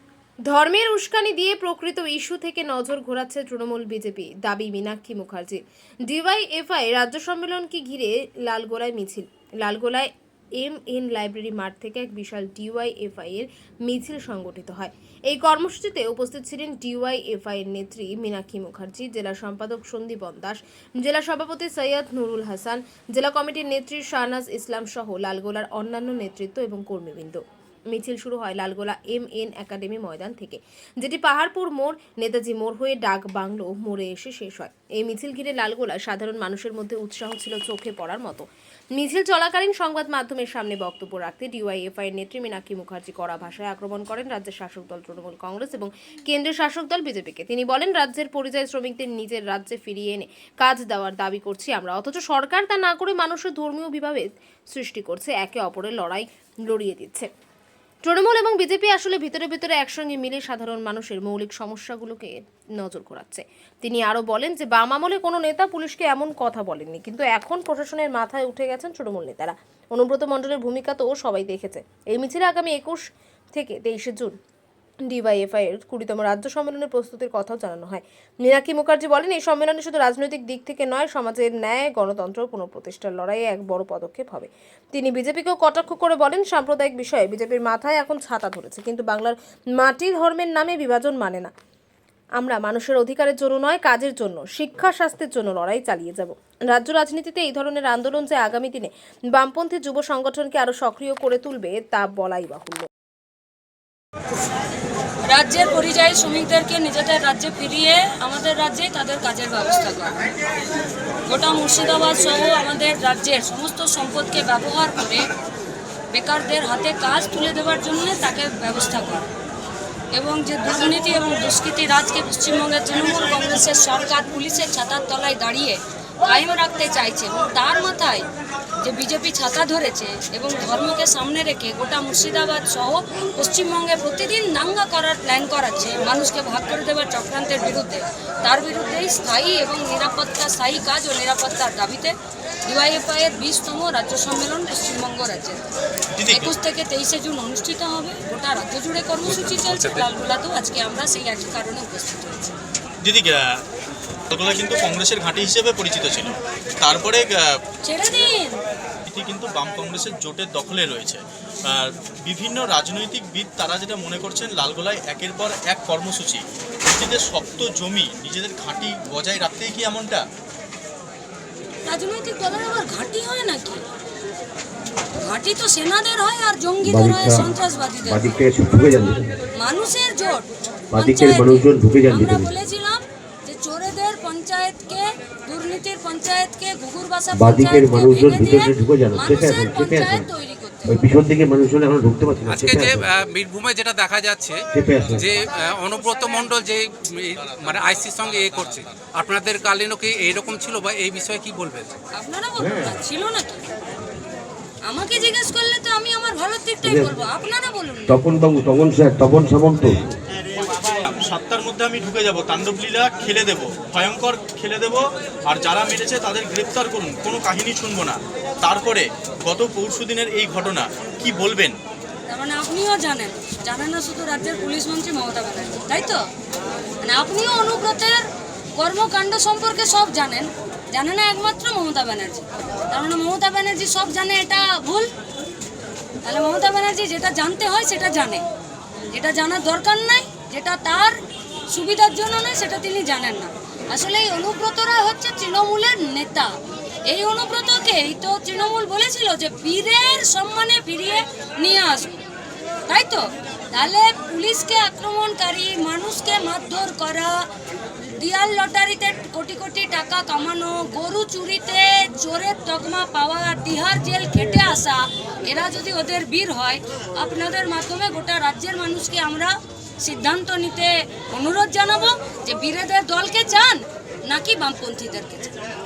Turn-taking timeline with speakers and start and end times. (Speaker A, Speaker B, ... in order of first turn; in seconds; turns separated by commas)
Speaker A: 0.5-57.3, Speaker A: 58.0-74.3, Speaker A: 75.1-91.5, Speaker A: 92.4-102.9, Speaker B: 105.3-110.2, Speaker B: 111.3-115.2, Speaker B: 116.1-119.3, Speaker B: 120.1-128.2, Speaker B: 128.8-142.1, Speaker B: 142.7-145.6, Speaker C: 146.2-146.5, Speaker B: 146.3-152.5, Speaker C: 153.0-153.6, Speaker C: 154.3-157.6, Speaker B: 157.8-158.5, Speaker C: 159.1-170.2, Speaker B: 171.8-173.8, Speaker B: 175.2-178.4, Speaker D: 176.8-177.5, Speaker D: 178.1-179.4, Speaker B: 179.6-191.0, Speaker D: 180.9-182.5, Speaker D: 187.3-190.2, Speaker D: 190.8-193.0, Speaker E: 192.5-194.6, Speaker D: 194.7-195.3, Speaker C: 195.0-196.5, Speaker E: 195.1-201.9, Speaker C: 197.4-198.9, Speaker B: 202.1-203.6, Speaker D: 202.6-203.0, Speaker B: 204.8-208.2, Speaker D: 206.8-207.1, Speaker D: 208.1-210.1, Speaker C: 211.1-221.8, Speaker B: 222.3-226.2, Speaker B: 227.0-228.2, Speaker B: 228.8-235.1, Speaker B: 236.2-238.4, Speaker B: 239.1-241.2, Speaker B: 241.7-246.5, Speaker B: 247.1-252.2, Speaker B: 252.9-257.4, Speaker B: 258.1-275.5